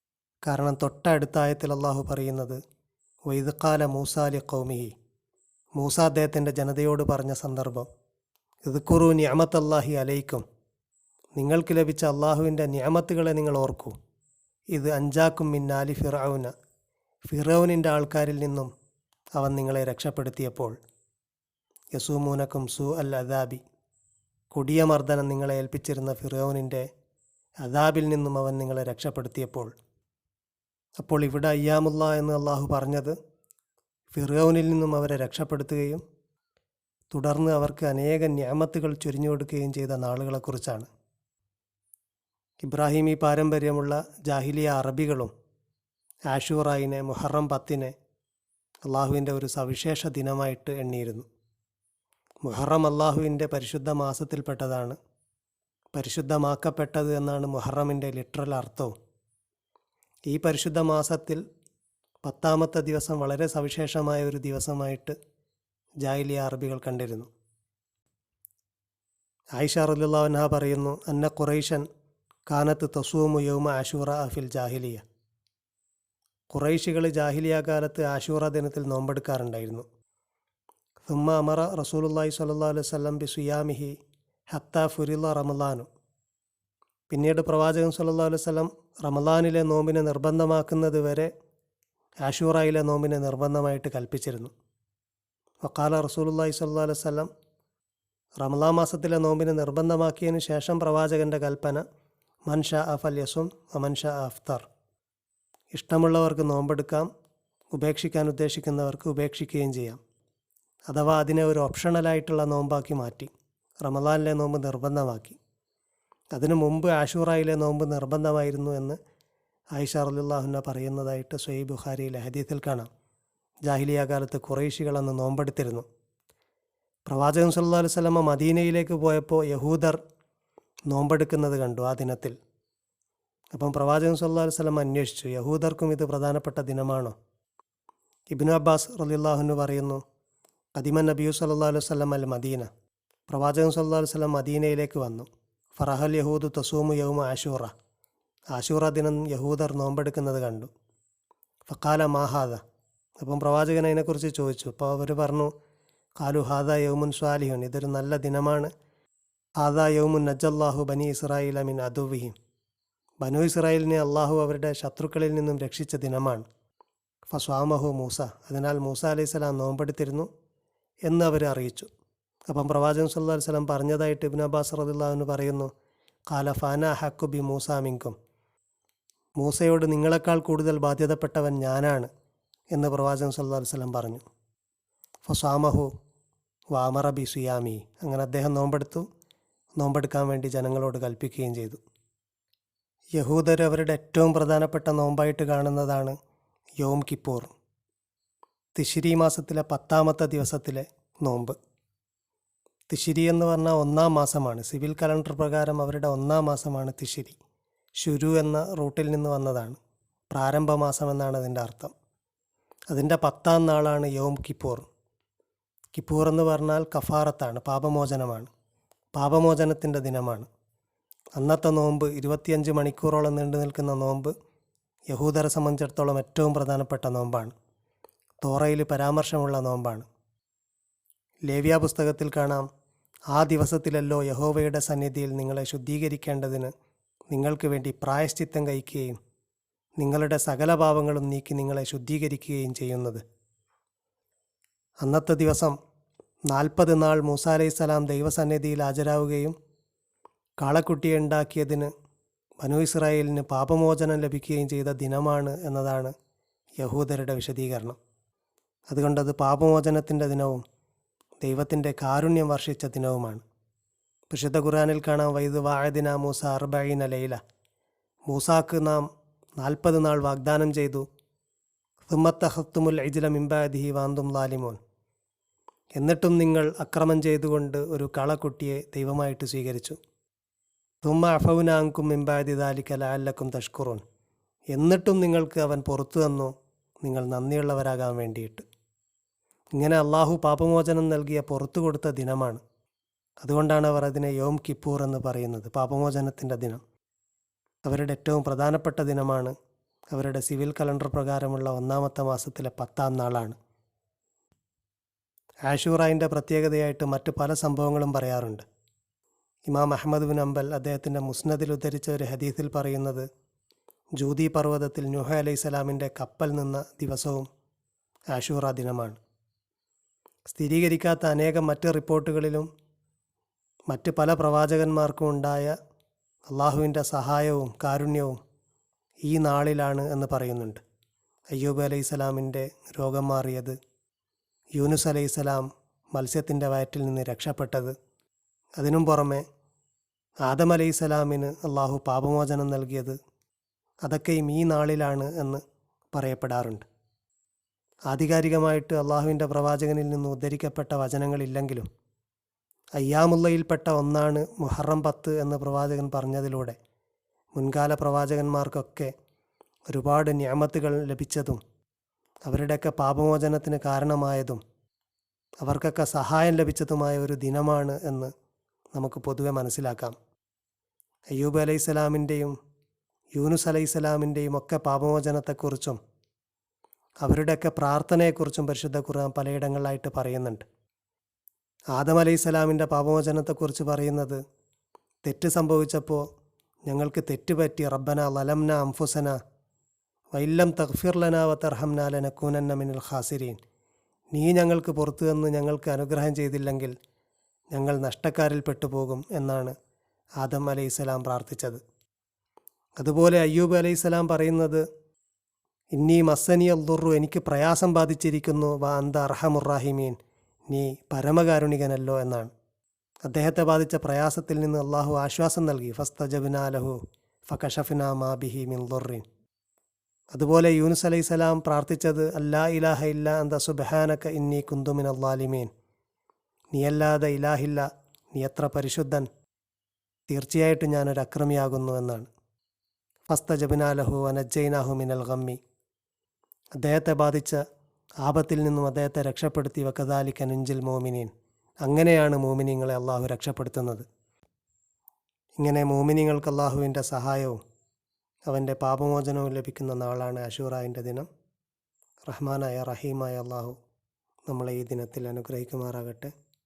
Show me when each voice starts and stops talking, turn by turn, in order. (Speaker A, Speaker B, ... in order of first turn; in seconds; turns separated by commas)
Speaker A: 0.5-2.6, Speaker A: 3.3-4.9, Speaker A: 5.8-7.9, Speaker A: 8.7-10.4, Speaker A: 11.4-13.9, Speaker A: 14.7-16.5, Speaker A: 17.3-18.7, Speaker A: 19.4-20.8, Speaker A: 22.0-23.6, Speaker A: 24.5-26.9, Speaker A: 27.6-29.7, Speaker A: 31.0-33.1, Speaker A: 34.1-36.0, Speaker A: 37.1-40.9, Speaker A: 42.6-45.3, Speaker A: 46.3-47.9, Speaker A: 48.9-51.3, Speaker A: 52.5-55.0, Speaker A: 56.0-58.9, Speaker A: 60.3-61.4, Speaker A: 62.2-65.2, Speaker A: 66.0-67.3, Speaker A: 69.6-71.8, Speaker A: 72.5-75.0, Speaker A: 76.5-79.8, Speaker A: 81.0-84.0, Speaker A: 84.5-85.9, Speaker A: 87.1-91.3, Speaker A: 92.2-94.5, Speaker A: 95.6-97.3, Speaker A: 98.4-101.8, Speaker A: 102.5-104.7, Speaker A: 105.7-107.1, Speaker A: 107.7-110.0, Speaker A: 110.9-113.3, Speaker A: 113.8-115.4, Speaker A: 116.3-119.0, Speaker A: 119.8-122.9, Speaker A: 123.7-125.8, Speaker A: 127.1-130.0, Speaker A: 130.9-132.4, Speaker A: 133.6-137.2, Speaker A: 138.3-140.0, Speaker A: 140.8-142.7, Speaker A: 143.3-147.7, Speaker A: 148.5-150.7, Speaker A: 151.7-152.6, Speaker A: 153.2-155.5, Speaker A: 156.2-158.7, Speaker A: 159.6-162.3, Speaker A: 163.2-166.4, Speaker A: 167.3-170.3, Speaker A: 171.1-171.9, Speaker A: 172.5-175.7, Speaker A: 176.3-178.2, Speaker A: 179.4-182.1, Speaker A: 182.8-184.2, Speaker A: 185.3-185.9, Speaker A: 186.7-189.1, Speaker A: 189.8-191.8, Speaker A: 193.2-196.2, Speaker A: 196.8-197.5, Speaker A: 198.8-201.6, Speaker A: 202.9-207.4, Speaker A: 208.0-209.8, Speaker A: 210.3-211.9, Speaker A: 212.9-214.8, Speaker A: 215.9-218.5, Speaker A: 219.2-220.5, Speaker A: 221.4-224.3, Speaker A: 225.1-227.5, Speaker A: 228.4-230.1, Speaker A: 231.5-232.7, Speaker A: 233.3-236.7, Speaker A: 237.3-239.2, Speaker A: 240.0-243.2, Speaker A: 245.0-245.8, Speaker A: 246.5-249.6, Speaker A: 250.6-251.9, Speaker A: 252.6-256.1, Speaker A: 256.8-258.0, Speaker A: 258.9-260.6, Speaker A: 261.4-263.4, Speaker A: 264.3-267.4, Speaker A: 268.3-269.1, Speaker A: 269.6-271.1, Speaker A: 272.1-274.8, Speaker A: 276.0-280.0, Speaker A: 281.0-284.0, Speaker A: 284.7-286.5, Speaker A: 287.0-288.6, Speaker A: 289.8-292.6, Speaker A: 293.4-296.8, Speaker A: 297.9-299.5, Speaker A: 300.1-303.6, Speaker A: 305.7-308.6, Speaker A: 309.7-313.3, Speaker A: 314.2-317.5, Speaker A: 318.3-319.2, Speaker A: 320.5-322.7, Speaker A: 323.9-325.8, Speaker A: 326.5-328.4, Speaker A: 329.3-330.8, Speaker A: 331.5-333.8, Speaker A: 334.8-337.9, Speaker A: 338.8-339.4, Speaker A: 340.5-343.2, Speaker A: 344.1-345.6, Speaker A: 346.1-346.9, Speaker A: 348.1-351.9, Speaker A: 353.0-356.8, Speaker A: 357.6-359.1, Speaker A: 359.9-361.6, Speaker A: 362.5-364.6, Speaker A: 365.6-368.3, Speaker A: 368.9-370.2, Speaker A: 371.4-372.6, Speaker A: 373.4-376.0, Speaker A: 377.2-380.7, Speaker A: 381.9-384.4, Speaker A: 385.2-386.2, Speaker A: 386.9-389.4, Speaker A: 390.4-393.6, Speaker A: 394.3-396.9, Speaker A: 397.7-399.8, Speaker A: 400.4-401.8, Speaker A: 403.0-404.8, Speaker A: 406.0-410.2, Speaker A: 410.7-412.5, Speaker A: 413.3-419.2, Speaker A: 420.3-425.7, Speaker A: 426.7-429.3, Speaker A: 430.3-432.3, Speaker A: 433.3-435.6, Speaker A: 436.8-437.6, Speaker A: 438.2-441.3, Speaker A: 441.8-444.1, Speaker A: 445.6-447.6, Speaker A: 448.5-451.3, Speaker A: 452.3-453.8, Speaker A: 454.5-456.3